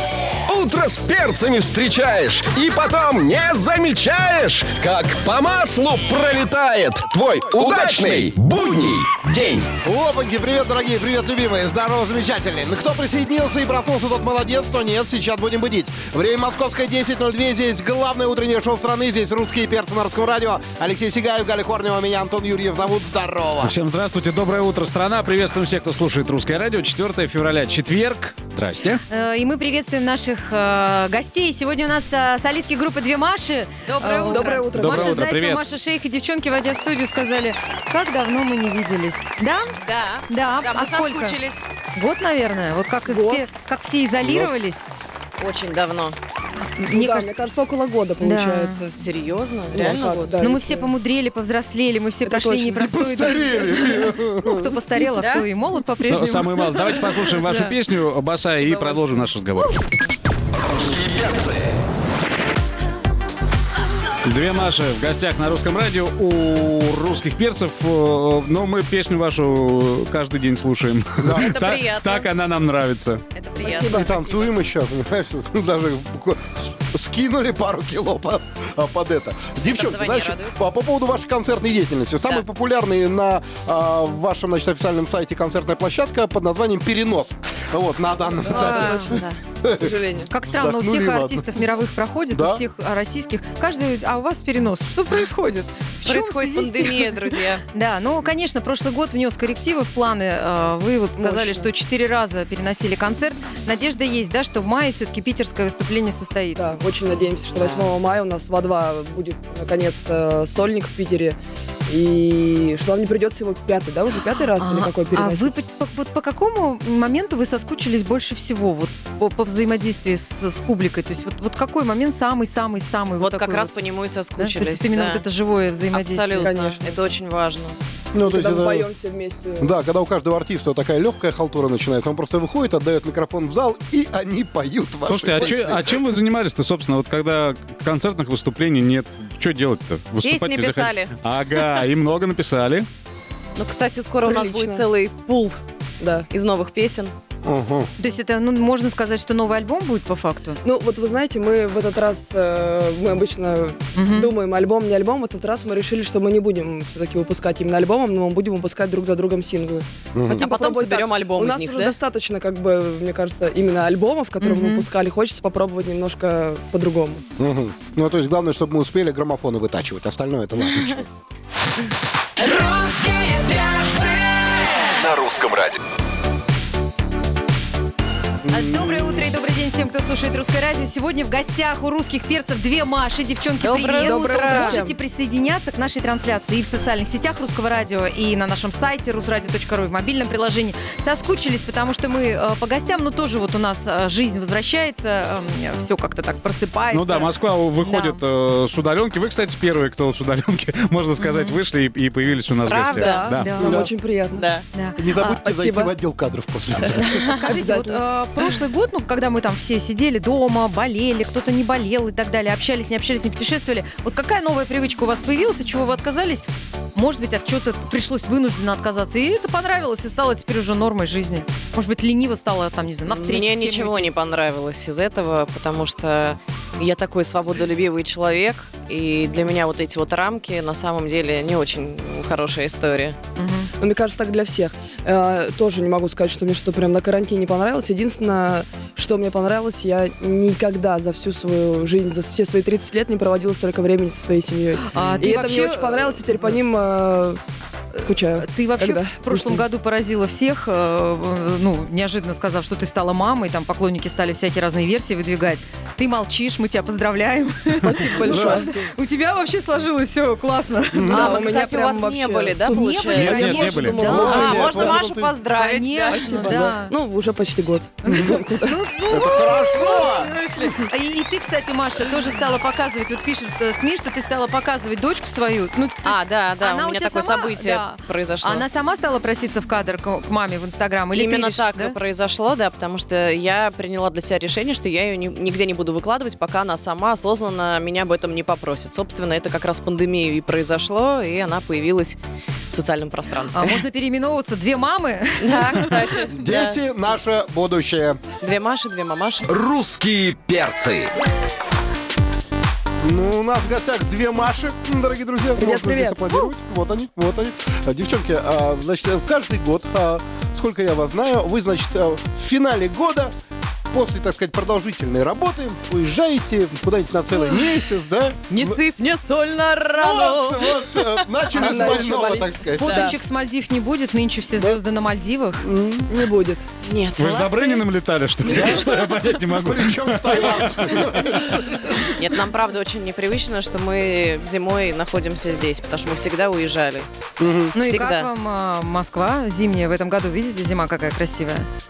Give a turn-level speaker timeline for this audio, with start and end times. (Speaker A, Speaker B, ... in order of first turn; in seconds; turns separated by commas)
Speaker A: 0.5-9.7, Speaker B: 7.5-8.3, Speaker B: 9.8-23.7, Speaker C: 23.6-29.0, Speaker D: 29.1-39.7, Speaker E: 33.8-34.7, Speaker F: 34.2-35.3, Speaker C: 34.7-35.6, Speaker E: 39.8-41.6, Speaker D: 40.3-41.4, Speaker D: 41.9-44.9, Speaker F: 43.0-43.5, Speaker B: 44.2-44.5, Speaker E: 45.4-46.2, Speaker D: 46.8-47.3, Speaker F: 46.8-49.0, Speaker D: 48.2-48.8, Speaker E: 49.0-50.4, Speaker F: 49.7-50.9, Speaker D: 50.4-57.8, Speaker F: 52.2-52.9, Speaker B: 52.8-54.7, Speaker E: 55.1-55.5, Speaker C: 56.1-59.8, Speaker E: 58.6-59.2, Speaker A: 60.8-61.6, Speaker C: 64.2-73.2, Speaker B: 71.2-71.5, Speaker E: 71.3-72.3, Speaker E: 73.3-74.6, Speaker F: 73.6-74.1, Speaker B: 73.9-91.4, Speaker E: 79.7-80.5, Speaker E: 88.4-89.4, Speaker D: 88.5-89.1, Speaker F: 89.8-90.3, Speaker D: 90.3-97.2, Speaker B: 92.3-92.6, Speaker E: 96.0-97.6, Speaker D: 97.7-106.8, Speaker F: 101.2-101.7, Speaker F: 106.5-115.5, Speaker D: 107.5-107.9, Speaker D: 114.5-123.8, Speaker E: 123.2-125.2, Speaker D: 124.3-126.5, Speaker E: 125.9-127.8, Speaker F: 126.4-127.0, Speaker B: 128.1-128.9, Speaker F: 128.2-129.8, Speaker B: 129.6-136.0, Speaker C: 135.1-142.9, Speaker E: 140.2-141.1, Speaker E: 143.6-145.6, Speaker F: 144.2-144.8, Speaker F: 146.0-146.3, Speaker E: 146.3-147.1, Speaker B: 147.4-147.9, Speaker D: 148.0-150.6, Speaker F: 150.6-167.2, Speaker D: 153.9-154.3, Speaker B: 160.1-160.4, Speaker E: 160.4-161.9, Speaker D: 164.4-164.8, Speaker B: 167.4-171.1, Speaker A: 175.0-175.7, Speaker B: 178.4-179.2, Speaker D: 178.5-198.2, Speaker E: 183.6-184.8, Speaker F: 184.0-185.0, Speaker C: 196.9-203.6, Speaker D: 201.2-201.6, Speaker E: 202.7-203.3, Speaker F: 202.9-204.5, Speaker D: 203.3-203.8, Speaker B: 203.6-203.9, Speaker E: 204.3-204.6, Speaker D: 204.7-205.0, Speaker B: 204.9-207.3, Speaker F: 205.1-205.9, Speaker D: 207.0-216.4, Speaker F: 207.3-208.0, Speaker D: 216.9-224.1, Speaker E: 223.1-233.2, Speaker D: 233.3-233.7, Speaker F: 233.8-247.4, Speaker D: 244.9-246.5, Speaker C: 244.9-245.3, Speaker F: 248.0-249.6, Speaker D: 248.2-261.6, Speaker F: 257.8-258.7, Speaker B: 258.3-258.6, Speaker B: 260.9-261.3, Speaker F: 261.0-265.0, Speaker E: 261.1-263.5, Speaker D: 262.8-264.9, Speaker C: 263.1-264.1, Speaker B: 264.0-265.3, Speaker E: 264.1-266.7, Speaker D: 265.5-266.9, Speaker F: 266.1-268.8, Speaker D: 268.0-281.9, Speaker B: 268.1-268.4, Speaker B: 269.1-270.3, Speaker E: 276.0-278.6, Speaker E: 281.1-292.2, Speaker E: 292.7-293.8, Speaker D: 293.5-295.9, Speaker E: 295.4-296.8, Speaker B: 296.3-298.2, Speaker E: 298.4-299.5, Speaker A: 299.5-301.1, Speaker B: 303.0-313.3, Speaker F: 305.6-306.3, Speaker B: 313.9-318.8, Speaker E: 318.5-322.2, Speaker B: 320.0-323.1, Speaker F: 321.5-323.1, Speaker D: 322.8-325.6, Speaker E: 322.8-323.1, Speaker B: 325.6-326.1, Speaker F: 326.1-326.6, Speaker E: 326.8-327.8, Speaker C: 327.2-331.0, Speaker B: 328.5-328.9, Speaker B: 329.6-331.9, Speaker E: 332.2-337.1, Speaker B: 337.4-337.7, Speaker D: 337.7-341.7, Speaker E: 337.7-338.3